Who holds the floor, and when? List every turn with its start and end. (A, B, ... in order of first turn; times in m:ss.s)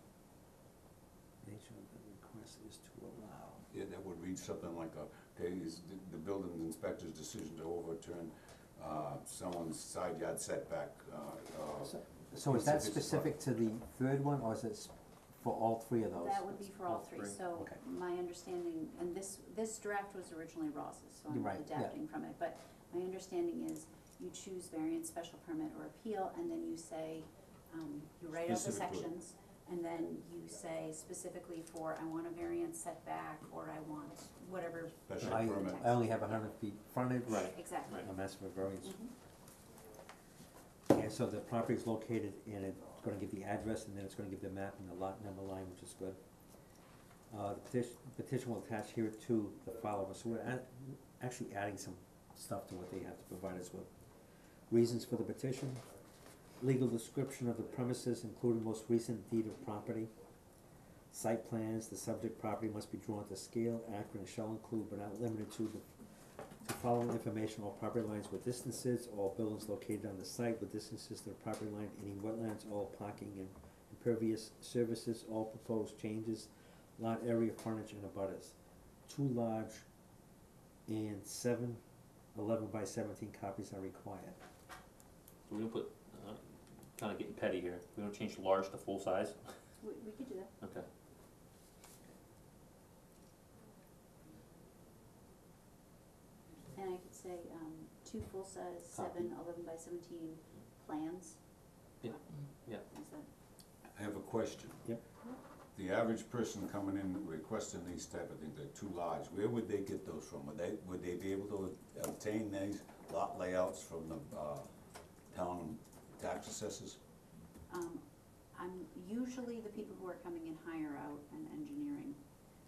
0:01.4-0:03.6 A
0:03.7-0:13.4 B
0:11.8-0:16.7 A
0:16.1-0:36.2 C
0:16.8-0:17.4 D
0:21.3-0:22.0 A
0:28.3-0:29.1 B
0:35.1-0:35.9 B
0:35.2-0:39.0 A
0:37.2-0:38.1 D
0:37.5-0:38.0 C
0:38.8-0:39.1 C
0:40.9-0:46.2 A
0:47.3-0:53.9 A
0:54.7-0:55.9 A
0:56.6-1:00.1 A
1:01.1-1:05.9 A
1:06.6-1:18.6 A
1:19.1-1:19.8 A
1:20.9-1:21.8 A
1:22.3-1:24.4 A
1:25.5-1:29.4 D
1:29.8-1:30.5 C
1:36.7-1:41.4 C
1:38.9-1:39.3 D
1:42.0-1:42.8 D
1:42.0-1:43.3 C
1:43.9-1:44.9 B
1:45.8-1:54.7 B
1:55.3-1:57.0 B
1:57.7-2:02.2 C